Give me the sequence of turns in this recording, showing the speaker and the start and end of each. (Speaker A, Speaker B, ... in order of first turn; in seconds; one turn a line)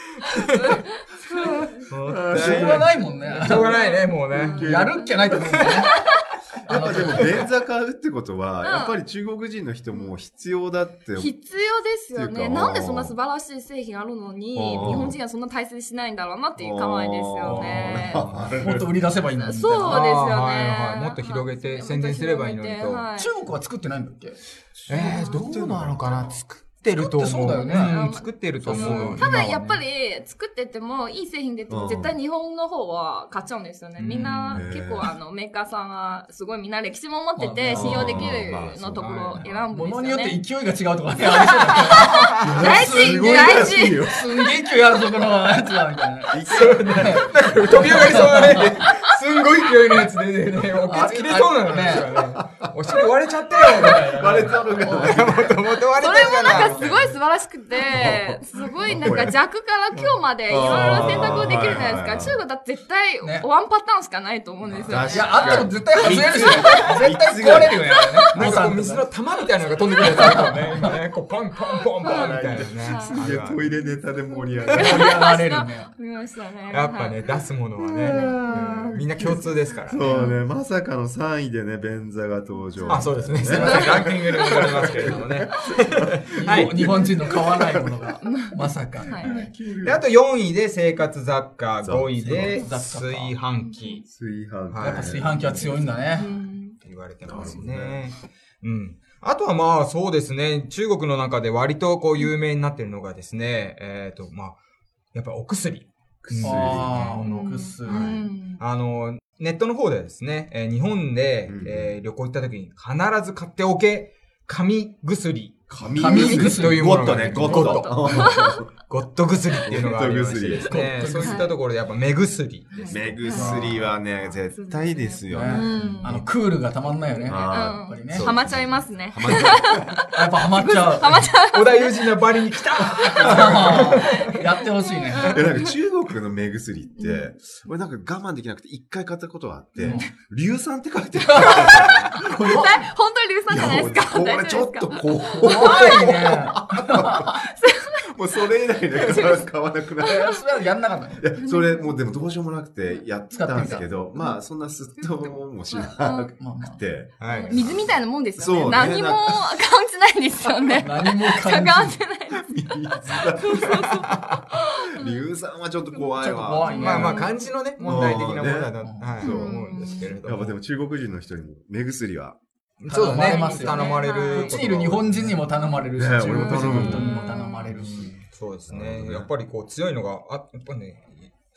Speaker A: 0.2-0.8
Speaker B: 0.6-1.8
Speaker A: 1.9-4.9
Speaker C: 2.1-2.9
Speaker D: 2.3-3.8
Speaker B: 3.3-6.0
Speaker D: 4.5-5.9
Speaker D: 6.7-7.4
Speaker C: 6.7-11.4
Speaker B: 8.6-9.0
Speaker B: 11.2-18.3
Speaker C: 12.1-13.2
Speaker C: 14.6-15.2
Speaker C: 16.6-19.0
Speaker A: 17.5-18.4
Speaker D: 18.6-20.0
Speaker B: 19.4-23.3
Speaker A: 19.7-23.1
Speaker D: 23.2-24.4
Speaker C: 24.8-26.4
Speaker A: 24.9-29.8
Speaker B: 24.9-25.4
Speaker D: 26.9-28.0
Speaker B: 27.3-40.4
Speaker D: 28.6-29.3
Speaker C: 31.7-32.2
Speaker A: 34.0-34.7
Speaker C: 34.5-35.1
Speaker D: 37.4-38.3
Speaker C: 37.7-39.6
Speaker A: 37.8-38.2
Speaker A: 38.9-39.7
Speaker D: 39.7-48.8
Speaker B: 41.4-44.0
Speaker C: 42.4-44.3
Speaker C: 46.3-48.2
Speaker A: 46.5-57.1
Speaker D: 50.8-52.1
Speaker D: 53.7-55.4
Speaker C: 53.9-55.5
Speaker B: 55.9-65.9
Speaker C: 56.5-57.0
Speaker C: 57.9-59.4
Speaker A: 58.9-59.3
Speaker C: 60.5-62.4
Speaker A: 60.7-61.5
Speaker D: 63.2-63.5
Speaker A: 64.7-65.0
Speaker C: 64.8-67.9
Speaker D: 65.1-69.1
Speaker A: 66.3-66.9
Speaker A: 68.3-73.7
Speaker B: 69.7-70.7
Speaker D: 70.0-70.8
Speaker B: 72.0-77.2
Speaker C: 72.0-75.2
Speaker D: 74.7-75.9
Speaker A: 76.7-80.1
Speaker B: 77.9-79.0
Speaker C: 78.0-86.6
Speaker D: 80.1-80.3
Speaker B: 80.1-80.4
Speaker B: 82.5-85.0
Speaker A: 82.9-86.9
Speaker D: 83.5-83.9
Speaker D: 86.3-89.5
Speaker C: 87.2-87.8
Speaker B: 88.2-89.5
Speaker C: 89.2-90.0
Speaker A: 89.8-94.0
Speaker C: 91.8-92.6
Speaker D: 92.2-93.4
Speaker B: 93.6-94.0
Speaker C: 94.1-95.6
Speaker A: 94.7-96.2
Speaker D: 94.8-96.3
Speaker B: 96.2-96.8
Speaker A: 96.8-104.6
Speaker C: 97.2-98.1
Speaker A: 105.1-124.4
Speaker C: 106.2-107.0
Speaker D: 106.4-108.2
Speaker B: 107.0-108.6
Speaker C: 111.5-112.0
Speaker C: 115.7-118.7
Speaker D: 115.9-117.3
Speaker B: 117.3-118.7
Speaker C: 119.7-120.8
Speaker D: 120.6-121.5
Speaker B: 121.2-121.5
Speaker B: 122.7-123.7
Speaker C: 122.8-125.9
Speaker D: 123.3-123.9
Speaker B: 124.5-126.2
Speaker D: 125.3-128.4
Speaker A: 125.4-126.3
Speaker B: 126.8-133.5
Speaker C: 127.3-129.9
Speaker A: 128.1-128.8
Speaker D: 130.1-131.3
Speaker A: 131.3-134.3
Speaker D: 133.1-135.4
Speaker C: 133.2-133.9
Speaker B: 134.9-135.8
Speaker C: 135.3-142.8
Speaker B: 137.0-137.3
Speaker D: 139.8-140.1
Speaker B: 139.8-140.1
Speaker D: 141.2-141.7
Speaker B: 141.6-146.0
Speaker C: 143.5-147.4
Speaker D: 145.3-147.3
Speaker A: 145.8-146.3
Speaker B: 147.2-150.4
Speaker C: 148.0-150.4
Speaker D: 150.0-151.3
Speaker C: 151.2-159.6
Speaker B: 151.4-152.2
Speaker D: 153.3-153.9
Speaker B: 153.6-154.4
Speaker B: 155.7-156.3
Speaker D: 156.4-156.8
Speaker A: 157.2-157.7
Speaker B: 157.2-165.2
Speaker D: 160.8-162.0
Speaker C: 162.4-164.0
Speaker A: 164.1-164.4
Speaker C: 165.0-166.7
Speaker B: 165.9-167.9
Speaker D: 166.2-167.3
Speaker A: 166.7-170.6
Speaker C: 167.8-169.6
Speaker D: 168.8-169.2
Speaker B: 169.2-170.2
Speaker C: 170.2-172.4
Speaker A: 172.8-175.5
Speaker D: 172.9-178.2
Speaker B: 173.1-174.6
Speaker C: 176.0-177.1
Speaker B: 176.3-177.7
Speaker A: 176.5-181.3
Speaker C: 178.7-179.3